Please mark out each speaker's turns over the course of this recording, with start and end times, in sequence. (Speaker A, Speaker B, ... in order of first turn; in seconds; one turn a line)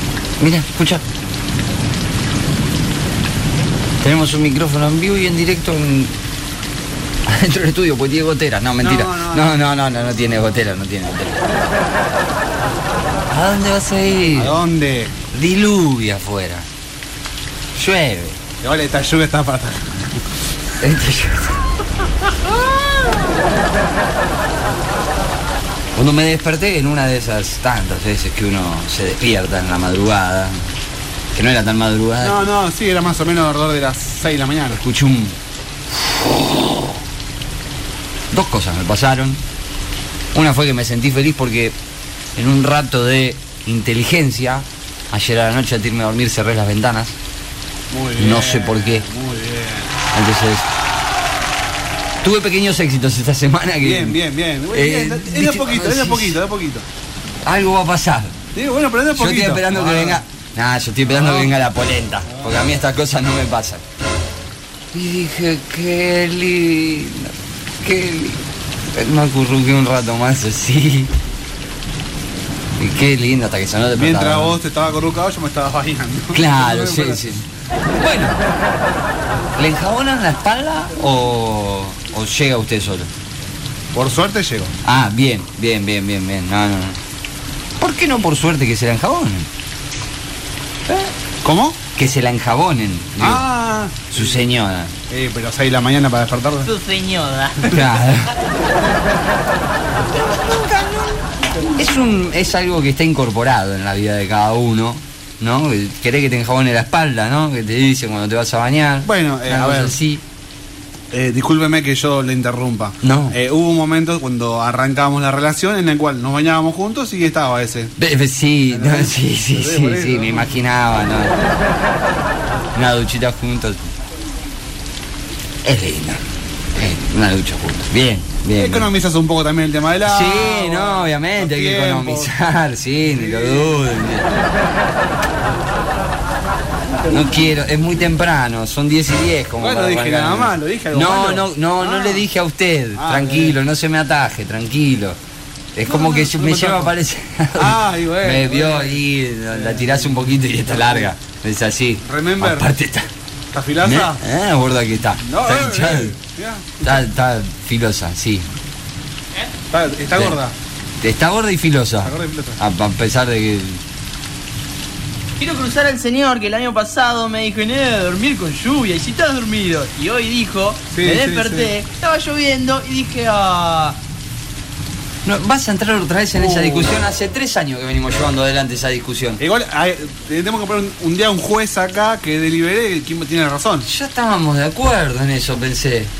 Speaker A: 0.4-1.0
Speaker A: 4.0-6.2
Speaker A: 7.3-11.4
Speaker B: 8.8-10.4
Speaker A: 13.3-14.6
Speaker B: 14.3-15.2
Speaker A: 15.3-16.7
Speaker A: 17.8-18.4
Speaker B: 18.6-20.2
Speaker A: 20.8-21.6
Speaker B: 22.3-23.2
Speaker A: 25.9-30.6
Speaker A: 31.3-32.4
Speaker B: 32.2-34.8
Speaker A: 34.7-35.4
Speaker A: 38.3-39.4
Speaker A: 40.3-41.8
Speaker A: 42.4-47.2
Speaker B: 47.9-50.0
Speaker A: 48.2-49.1
Speaker A: 50.1-50.7
Speaker A: 52.2-54.2
Speaker B: 53.8-56.9
Speaker A: 54.7-56.4
Speaker A: 57.5-58.4
Speaker B: 58.5-60.2
Speaker A: 59.1-63.8
Speaker B: 61.0-61.6
Speaker B: 62.2-62.7
Speaker A: 64.9-71.1
Speaker A: 72.8-74.6
Speaker B: 74.0-77.2
Speaker A: 76.3-78.4
Speaker A: 79.6-83.1
Speaker B: 83.9-84.7
Speaker A: 84.8-87.0
Speaker A: 87.8-89.5
Speaker B: 91.4-91.8
Speaker A: 92.0-93.5
Speaker B: 93.2-94.5
Speaker A: 94.1-94.9
Speaker B: 95.1-96.7
Speaker C: 96.6-97.8
Speaker A: 97.7-98.3
Speaker A: 100.3-101.2
Speaker A: 101.8-110.2
Speaker B: 109.0-110.0
Speaker B: 111.1-117.9
Speaker A: 113.0-113.4
Speaker A: 118.0-121.4
Speaker B: 118.7-120.7
Speaker A: 122.8-123.9
Speaker A: 125.6-126.2
Speaker A: 126.7-128.9
Speaker B: 128.5-132.3
Speaker A: 130.1-134.3
Speaker B: 133.0-133.9
Speaker A: 137.0-145.2
Speaker B: 139.6-142.3
Speaker B: 142.9-143.6
Speaker A: 145.7-153.1
Speaker B: 145.8-146.9
Speaker B: 147.6-151.1
Speaker B: 152.0-152.7
Speaker B: 153.5-154.2
Speaker A: 153.8-156.2
Speaker B: 155.2-157.0
Speaker A: 156.8-158.5
Speaker B: 159.7-160.6
Speaker A: 161.0-163.8
Speaker B: 162.0-162.6
Speaker C: 165.4-174.0
Speaker B: 170.9-171.7
Speaker A: 175.2-179.4
Speaker B: 176.3-176.9
Speaker B: 179.4-183.9
Speaker A: 183.8-186.1